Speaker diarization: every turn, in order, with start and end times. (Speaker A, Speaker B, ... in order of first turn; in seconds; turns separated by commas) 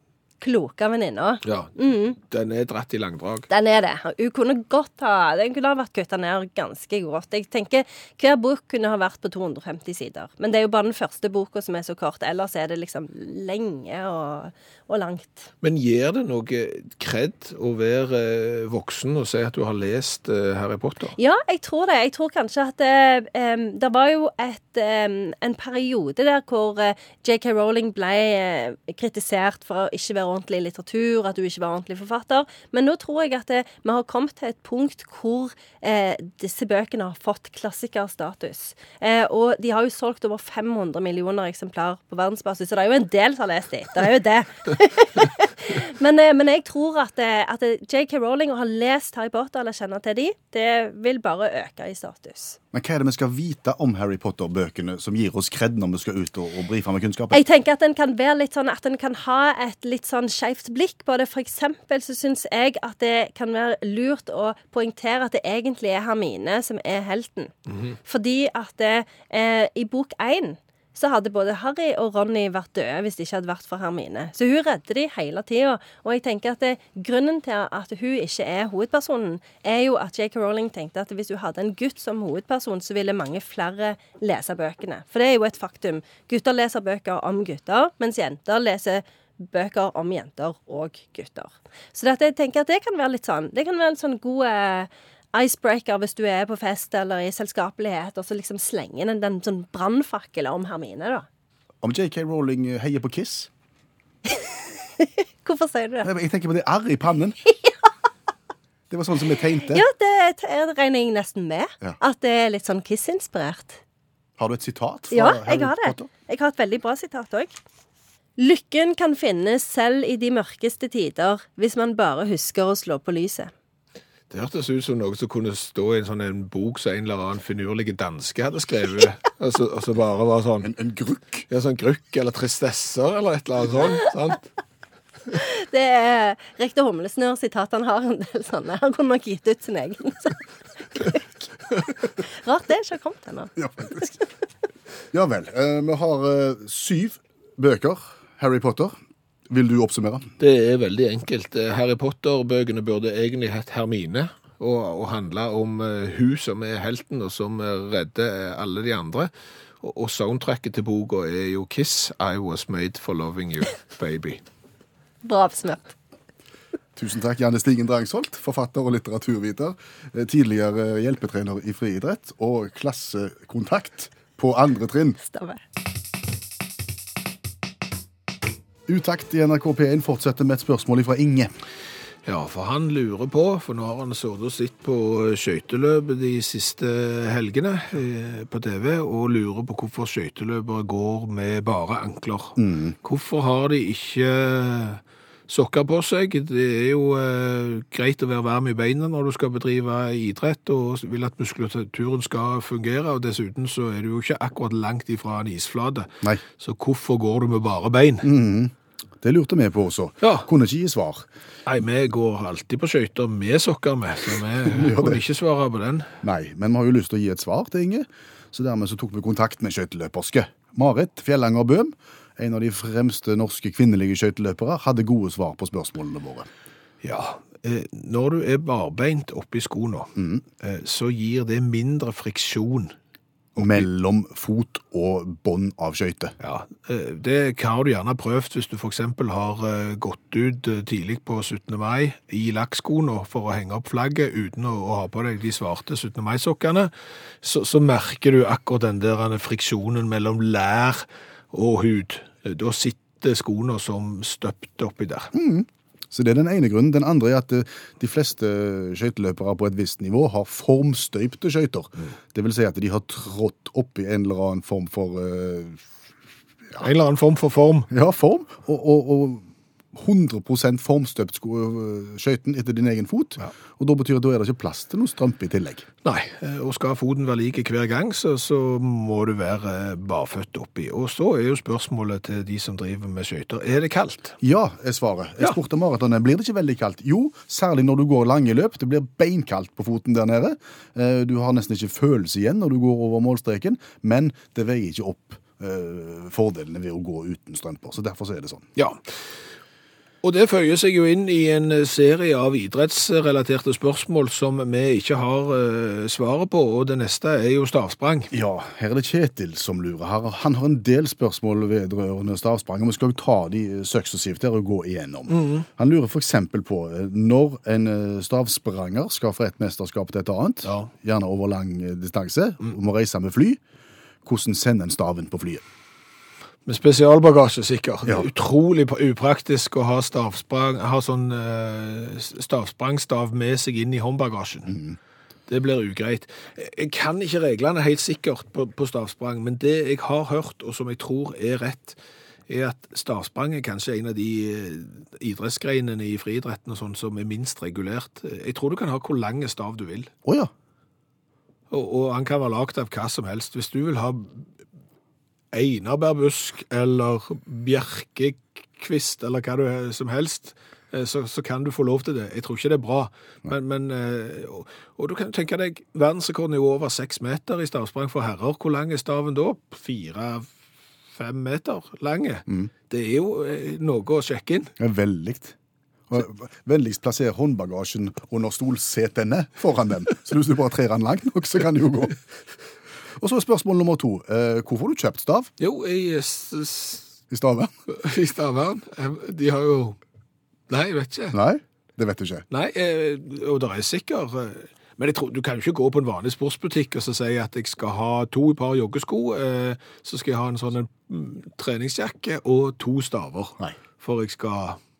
Speaker A: 0.4-2.2, Speaker B: 1.4-3.5, Speaker A: 3.5-15.5, Speaker B: 15.6-21.1, Speaker A: 21.2-52.6, Speaker C: 52.7-57.4, Speaker A: 57.3-101.3, Speaker C: 101.8-103.5, Speaker A: 105.0-106.1, Speaker C: 106.0-107.4, Speaker C: 108.9-109.8, Speaker A: 109.6-113.8, Speaker C: 114.4-116.1, Speaker A: 115.1-117.6, Speaker A: 118.4-123.5, Speaker B: 124.3-130.7, Speaker C: 130.6-131.4, Speaker B: 131.5-134.5, Speaker A: 135.3-140.4, Speaker A: 140.9-141.5, Speaker A: 142.2-144.0, Speaker C: 143.6-144.1, Speaker C: 145.1-148.9, Speaker C: 149.5-150.3, Speaker B: 150.4-164.4, Speaker A: 165.2-165.9, Speaker C: 166.9-175.2, Speaker A: 175.2-175.6, Speaker C: 178.9-181.5, Speaker B: 182.2-208.3, Speaker C: 192.6-192.9, Speaker C: 208.2-211.2, Speaker B: 210.2-210.5, Speaker B: 211.7-216.1, Speaker C: 214.7-215.2, Speaker C: 216.2-226.5, Speaker B: 227.0-232.9, Speaker C: 230.2-230.4, Speaker B: 233.6-233.8, Speaker C: 233.6-236.3, Speaker B: 236.4-246.9, Speaker B: 247.4-255.3, Speaker C: 255.3-265.9, Speaker B: 266.8-267.9, Speaker C: 267.9-275.9, Speaker B: 276.0-284.4, Speaker C: 284.4-298.7, Speaker B: 300.2-308.3, Speaker C: 308.3-323.6, Speaker B: 315.3-315.6, Speaker B: 320.6-320.9, Speaker C: 324.2-325.6, Speaker B: 326.6-334.8, Speaker C: 334.7-335.0, Speaker B: 335.5-350.1, Speaker C: 350.2-350.5, Speaker B: 351.7-354.5, Speaker B: 355.5-370.5, Speaker B: 371.1-374.7, Speaker C: 374.8-375.5, Speaker C: 376.1-382.1, Speaker C: 383.2-385.5, Speaker B: 385.6-387.1, Speaker C: 387.3-387.7, Speaker B: 387.9-390.0, Speaker B: 390.7-391.4, Speaker C: 391.3-392.4, Speaker B: 392.5-404.8